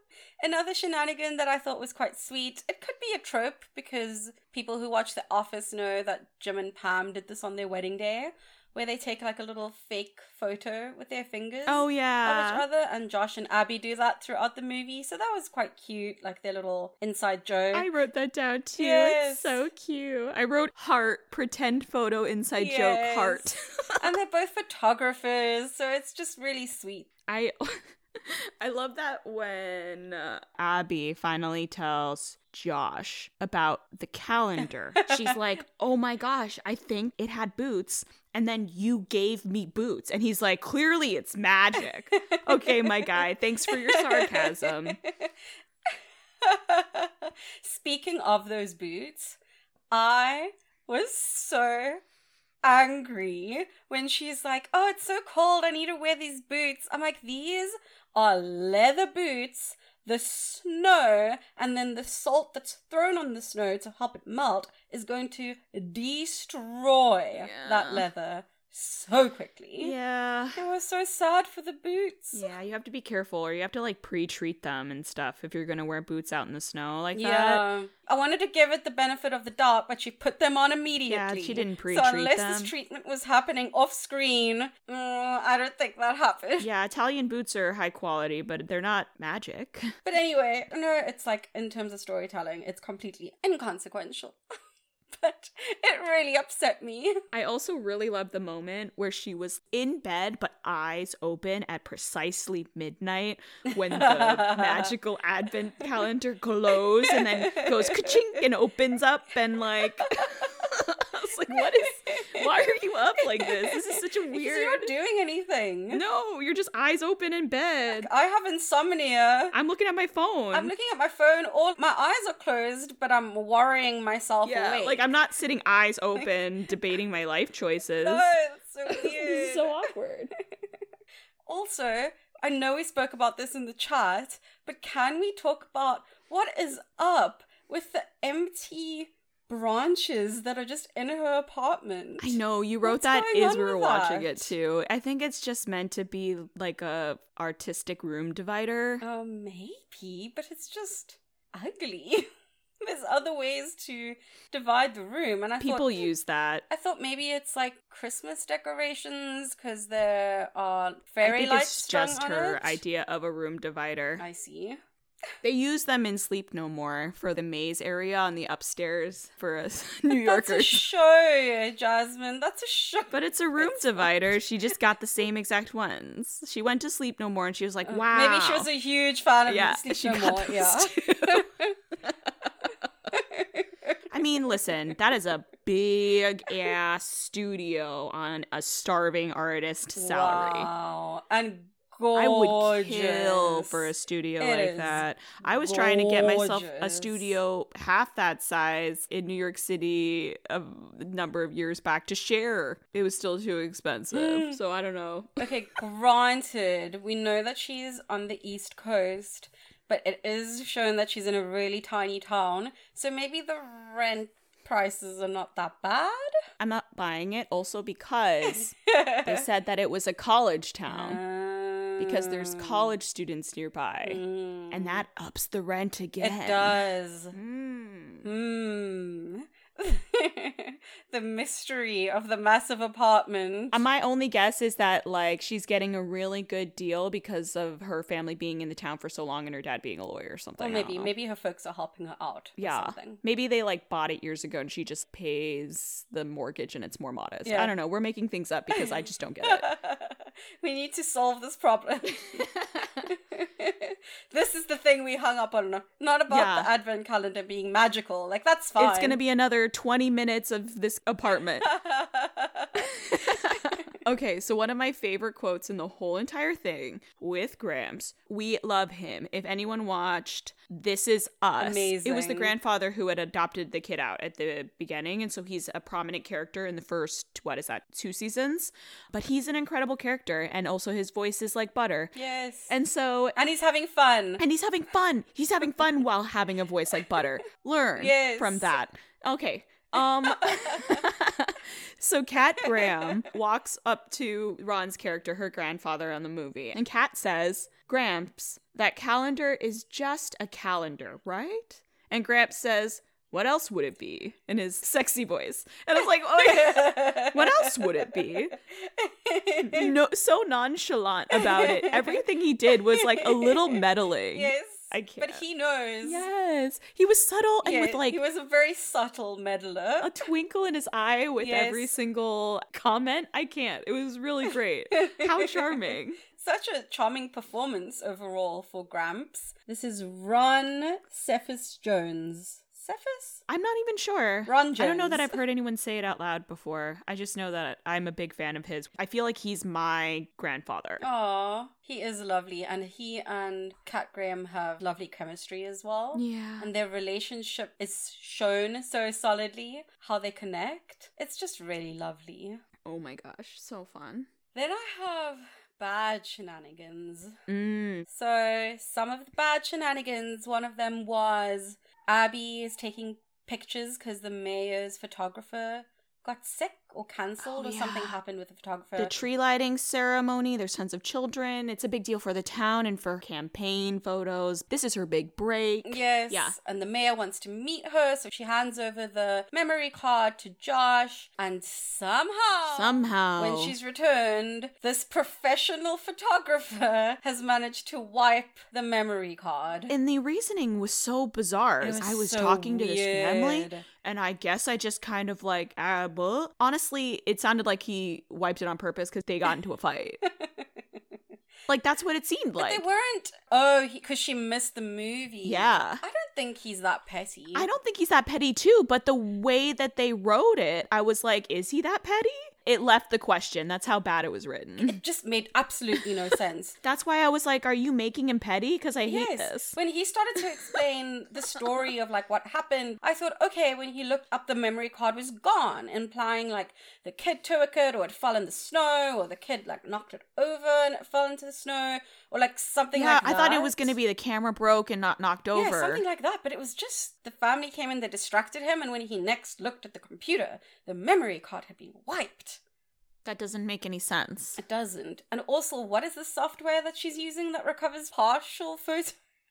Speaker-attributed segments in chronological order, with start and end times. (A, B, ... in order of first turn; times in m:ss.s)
0:00.4-0:17.9 A
0:11.7-0:12.6 B
0:17.7-0:24.1 B
0:18.8-0:19.6 A
0:22.6-0:23.5 A
0:24.0-0:27.1 A
0:27.3-0:45.0 B
0:35.0-0:35.4 A
0:42.1-0:43.2 A
0:43.7-0:45.3 A
0:45.9-0:49.4 A
0:49.9-0:52.0 A
0:52.6-1:09.9 A
1:07.4-1:08.1 B
1:09.8-1:10.6 B
1:10.6-1:12.5 A
1:12.3-1:17.6 B
1:17.2-1:26.7 A
1:21.1-1:22.7 B
1:26.6-1:29.9 B
1:30.0-1:34.4 A
1:35.1-1:37.2 A
1:37.3-1:54.9 B
1:43.7-1:44.9 A
1:47.1-1:48.2 A
1:50.0-1:50.5 A
1:51.5-1:56.0 A
1:55.9-1:58.1 B
1:57.9-1:59.6 A
1:59.5-2:00.7 B
2:00.5-2:05.0 A
2:04.4-2:08.3 B
2:08.0-2:09.8 A
2:08.9-2:10.3 B
2:11.5-2:24.5 A
2:22.2-2:29.0 B
2:29.0-2:32.3 A
2:32.8-2:36.1 A
2:35.6-2:36.6 B
2:36.7-2:42.8 A
2:41.2-2:44.2 B
2:44.2-2:44.8 A
2:45.4-2:50.9 B
2:50.1-2:54.3 A
2:53.1-2:58.7 B
2:57.9-3:01.8 A
2:59.5-3:01.5 B
3:03.1-3:04.0 A
3:04.1-3:10.7 B
3:10.0-3:15.0 A
3:12.1-3:25.5 B
3:15.5-3:17.3 A
3:24.1-3:24.6 A
3:25.4-3:36.4 A
3:36.6-3:41.2 B
3:38.5-3:39.4 A
3:40.9-3:42.9 A
3:42.0-3:46.8 B
3:44.0-3:45.0 A
3:46.2-3:47.4 A
3:47.3-3:48.3 B
3:48.2-3:53.8 A
3:53.7-4:01.1 B
4:00.6-4:03.2 A
4:02.6-4:09.7 B
4:07.4-4:07.7 A
4:08.7-4:19.2 A
4:12.6-4:13.0 B
4:16.3-4:16.7 B
4:18.8-4:21.7 B
4:21.6-4:23.8 A
4:22.8-4:42.2 B
4:31.6-4:32.5 A
4:42.2-4:42.8 A
4:42.7-4:43.4 B
4:43.4-4:44.4 A
4:44.4-5:08.6 B
4:48.0-4:48.7 A
4:50.3-4:51.1 A
4:52.7-4:53.0 A
5:06.4-5:09.9 A
5:09.6-5:15.4 B
5:11.3-5:12.2 A
5:12.9-5:13.8 A
5:14.3-5:16.3 A
5:16.0-5:18.2 B
5:17.6-5:20.1 A
5:20.0-5:26.2 B
5:21.4-5:21.9 A
5:24.9-5:25.8 A
5:26.3-5:33.4 A
5:33.5-5:41.0 B
5:34.5-5:35.4 A
5:41.0-5:52.6 A
5:46.1-5:46.7 B
5:52.8-5:54.3 B
5:54.5-5:57.4 A
5:57.5-5:58.1 B
5:58.1-6:09.2 A
6:07.4-6:08.2 B
6:09.0-6:16.6 B
6:15.9-6:29.9 A
6:22.7-6:23.8 B
6:29.9-6:40.2 B
6:31.8-6:33.8 A
6:40.2-6:40.7 A
6:41.7-6:42.9 B
6:42.6-6:47.7 A
6:45.4-6:46.0 B
6:47.6-6:55.0 B
6:54.8-6:56.8 A
6:56.8-6:59.8 B
6:59.0-7:13.9 A
7:00.6-7:00.8 B
7:12.9-7:16.0 B
7:15.5-7:22.6 A
7:23.2-7:24.6 B
7:24.6-7:29.2 A